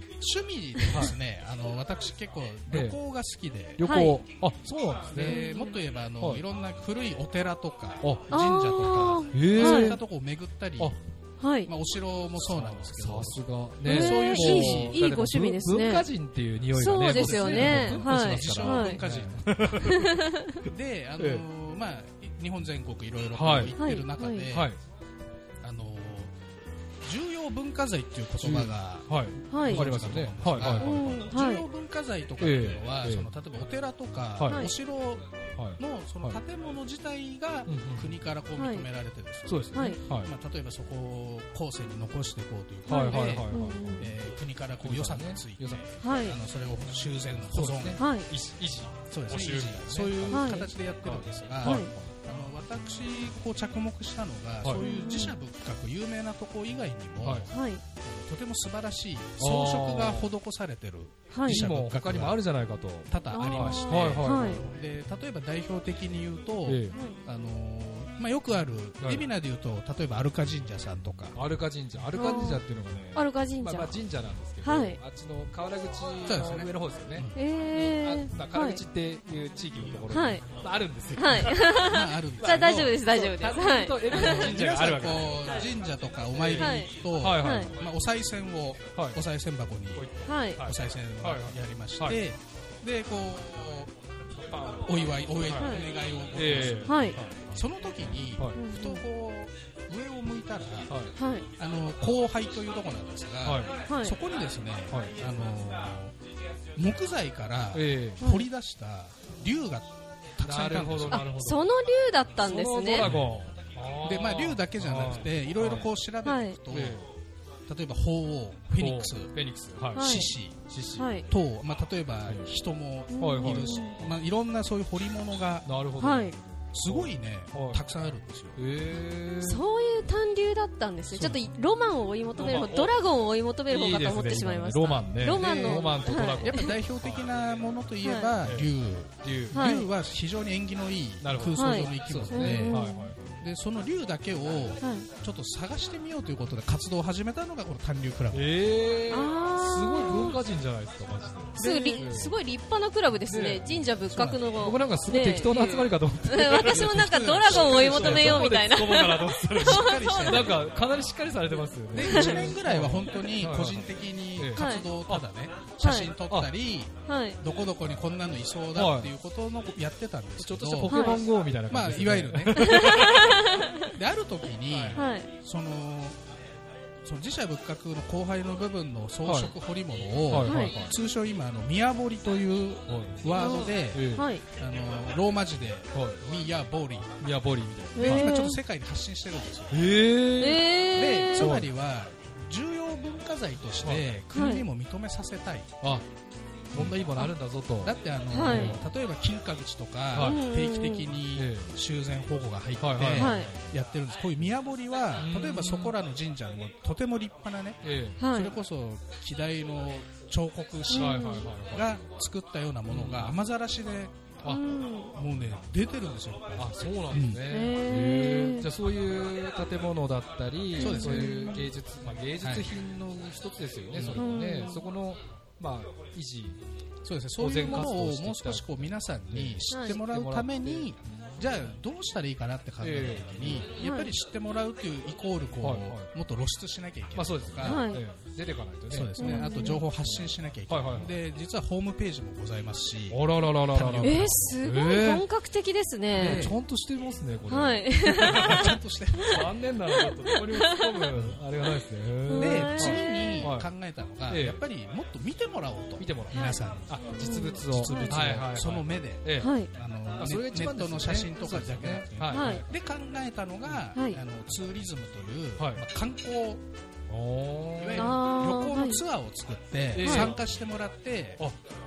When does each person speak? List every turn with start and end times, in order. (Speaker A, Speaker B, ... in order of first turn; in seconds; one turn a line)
Speaker A: 0.2-3.8
Speaker B: 0.9-1.1
Speaker B: 2.7-3.0
Speaker B: 3.8-5.4
Speaker C: 3.8-4.2
Speaker A: 5.1-10.9
Speaker C: 5.2-5.8
Speaker B: 8.0-8.3
Speaker C: 8.3-10.0
Speaker B: 9.3-10.0
Speaker C: 11.4-11.7
Speaker A: 11.7-15.0
Speaker B: 12.4-20.3
Speaker C: 13.8-16.1
Speaker C: 16.7-19.0
Speaker A: 17.0-20.1
Speaker C: 19.8-20.6
Speaker A: 20.6-24.7
Speaker B: 21.2-21.4
Speaker B: 23.3-23.8
Speaker C: 23.8-24.5
Speaker B: 24.5-24.8
Speaker A: 25.6-26.3
Speaker A: 27.0-48.0
Speaker B: 28.4-31.2
Speaker C: 29.5-29.9
Speaker C: 30.6-31.6
Speaker B: 32.4-33.3
Speaker B: 34.4-34.7
Speaker C: 34.4-34.7
Speaker B: 35.6-36.4
Speaker B: 37.7-38.2
Speaker C: 38.5-38.9
Speaker B: 39.5-40.3
Speaker C: 39.7-40.0
Speaker C: 42.9-44.1
Speaker B: 42.9-44.1
Speaker B: 44.8-46.1
Speaker C: 46.0-46.4
Speaker B: 47.5-52.1
Speaker C: 48.0-48.3
Speaker A: 49.1-62.4
Speaker C: 50.3-50.6
Speaker C: 51.6-51.9
Speaker B: 54.6-54.9
Speaker C: 54.7-55.4
Speaker B: 57.2-57.5
Speaker C: 57.5-57.8
Speaker B: 59.4-60.3
Speaker C: 61.3-61.6
Speaker B: 61.4-64.6
Speaker A: 63.1-71.4
Speaker C: 63.3-64.6
Speaker B: 66.7-67.0
Speaker C: 66.9-67.2
Speaker B: 69.0-69.2
Speaker B: 71.3-81.7
Speaker C: 72.1-72.6
Speaker C: 73.2-74.0
Speaker C: 74.6-75.0
Speaker A: 76.2-77.4
Speaker C: 77.3-78.8
Speaker C: 80.1-80.4
Speaker C: 81.2-84.5
Speaker A: 81.6-83.0
Speaker B: 82.4-85.7
Speaker A: 84.1-93.9
Speaker B: 86.3-87.8
Speaker C: 86.6-87.7
Speaker B: 89.9-92.2
Speaker C: 90.2-90.6
Speaker B: 94.4-97.5
Speaker A: 94.8-100.9
Speaker C: 95.6-95.8
Speaker C: 96.8-97.2
Speaker B: 98.3-98.6
Speaker C: 98.5-99.0
Speaker B: 100.9-101.1
Speaker C: 101.2-101.5
Speaker A: 101.5-106.2
Speaker B: 103.4-103.8
Speaker C: 103.9-104.2
Speaker B: 104.9-105.2
Speaker A: 106.7-111.2
Speaker B: 107.7-108.2
Speaker C: 108.2-108.5
Speaker B: 110.4-111.7
Speaker C: 111.1-113.1
Speaker B: 112.4-115.9
Speaker A: 113.0-113.2
Speaker A: 114.0-117.0
Speaker C: 116.2-116.6
Speaker B: 116.7-117.1
Speaker A: 117.7-119.3
Speaker B: 118.8-121.2
Speaker A: 119.9-120.6
Speaker C: 120.0-120.3
Speaker C: 121.0-121.2
Speaker A: 121.3-125.8
Speaker C: 123.1-124.0
Speaker B: 123.2-124.2
Speaker B: 125.7-127.8
Speaker C: 126.0-126.3
Speaker A: 126.7-128.6
Speaker B: 128.6-129.6
Speaker C: 129.4-136.7
Speaker A: 131.1-131.4
Speaker B: 132.3-132.9
Speaker B: 133.7-137.3
Speaker A: 135.3-142.8
Speaker C: 138.0-138.3
Speaker B: 138.4-138.7
Speaker B: 139.2-139.7
Speaker C: 139.5-139.9
Speaker B: 141.2-143.4
Speaker C: 141.5-143.1
Speaker A: 143.4-148.7
Speaker C: 144.8-145.1
Speaker B: 148.3-152.3
Speaker C: 149.1-150.4
Speaker A: 151.6-152.1
Speaker C: 151.6-160.5
Speaker B: 153.3-153.9
Speaker A: 154.1-154.4
Speaker B: 154.6-165.2
Speaker A: 156.5-158.6
Speaker A: 159.5-160.7
Speaker A: 161.9-176.2
Speaker C: 162.0-162.5
Speaker C: 164.6-164.9
Speaker C: 165.8-166.1
Speaker C: 167.1-167.4
Speaker B: 168.7-169.1
Speaker B: 170.4-173.5
Speaker C: 170.9-171.2
Speaker C: 172.6-173.9
Speaker B: 174.7-175.0
Speaker C: 174.9-175.3
Speaker A: 177.0-187.2
Speaker B: 179.2-179.5
Speaker B: 180.3-180.9
Speaker C: 180.4-180.7
Speaker B: 182.9-184.3
Speaker C: 183.3-184.4
Speaker B: 185.9-186.2
Speaker B: 187.2-188.3
Speaker C: 188.0-188.6
Speaker A: 188.0-190.0
Speaker B: 189.7-190.8
Speaker C: 190.4-191.6
Speaker A: 190.9-195.7
Speaker B: 191.3-191.7
Speaker C: 194.3-194.7
Speaker B: 195.8-196.1
Speaker B: 196.7-198.9
Speaker A: 196.7-214.2
Speaker C: 198.3-198.8
Speaker B: 200.1-200.4
Speaker C: 200.2-201.1
Speaker B: 201.3-201.8
Speaker B: 202.8-203.7
Speaker C: 203.1-203.5
Speaker B: 205.2-205.9
Speaker B: 207.8-208.2
Speaker C: 208.2-208.6
Speaker C: 210.9-211.5
Speaker B: 210.9-212.0
Speaker B: 212.9-213.4
Speaker C: 214.4-215.2
Speaker A: 215.1-217.5
Speaker B: 216.6-226.6
Speaker C: 217.5-218.7
Speaker C: 220.8-221.7
Speaker A: 220.8-221.7
Speaker A: 222.4-222.7
Speaker A: 223.9-224.3
Speaker C: 224.1-224.9
Speaker A: 227.0-237.9
Speaker B: 227.4-231.7
Speaker C: 229.7-230.0
Speaker B: 232.8-233.7
Speaker C: 233.8-234.1
Speaker B: 235.6-236.1
Speaker B: 237.1-241.1
Speaker C: 237.6-238.0
Speaker A: 238.9-244.6
Speaker C: 239.2-239.8
Speaker B: 243.1-245.2
Speaker C: 244.0-246.5
Speaker B: 246.1-248.7
Speaker C: 247.5-249.4
Speaker A: 248.2-249.5
Speaker B: 249.3-253.7
Speaker C: 250.3-250.9
Speaker C: 252.3-253.5
Speaker A: 252.3-266.6
Speaker B: 254.3-254.6
Speaker B: 256.0-259.5
Speaker C: 256.3-258.2
Speaker C: 259.4-259.7
Speaker B: 260.2-262.6
Speaker C: 262.3-262.6
Speaker C: 263.9-264.2
Speaker B: 265.6-265.8
Speaker B: 267.1-268.2
Speaker A: 267.8-271.4
Speaker C: 267.9-269.0
Speaker B: 269.9-270.4
Speaker C: 270.0-270.3